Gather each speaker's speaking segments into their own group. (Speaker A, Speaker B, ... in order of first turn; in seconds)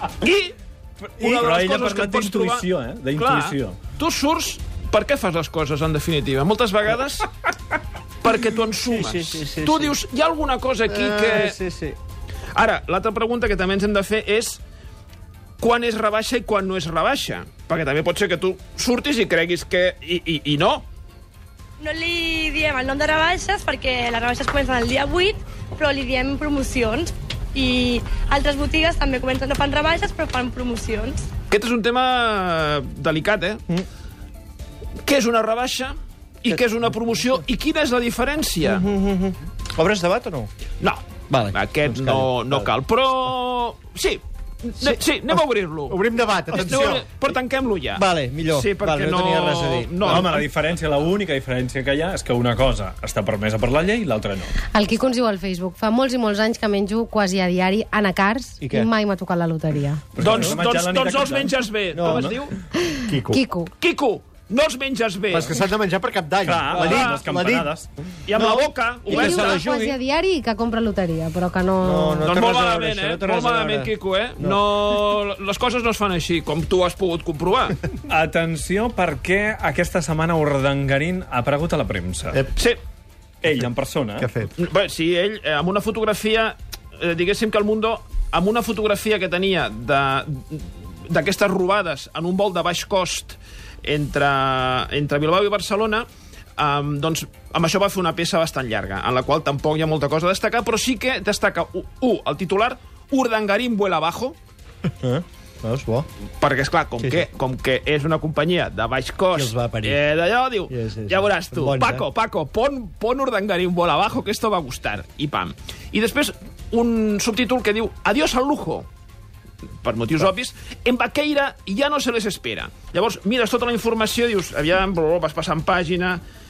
Speaker A: 0.2-0.5, 1.2-7.3, 8.2-11.6, 12.5-14.6, 15.6-20.9, 31.5-33.6, 35.0-38.8, 40.8-46.0, 46.5-50.5, 60.2-62.5, 63.8-65.5, 66.7-67.2, 68.3-69.6, 72.2-77.8, 84.6-96.0, 96.6-104.4, 106.4-118.8, 119.8-126.2
Speaker B: 1.1-3.8, 50.0-54.5, 60.1-61.5, 62.0-62.4, 66.4-67.9, 78.1-82.4, 83.4-84.3
Speaker C: 8.8-9.9, 10.9-12.0, 38.6-40.5, 41.3-42.7, 47.9-50.3, 58.6-58.9, 61.9-62.2, 68.3-70.0, 71.8-74.6, 105.0-106.1, 107.0-107.3, 109.3-110.0, 110.7-112.0
Speaker D: 21.8-31.2
Speaker E: 45.9-47.0, 63.1-63.4, 65.3-67.7, 84.2-84.5
Speaker F: 54.7-60.0, 63.3-63.7, 69.1-72.3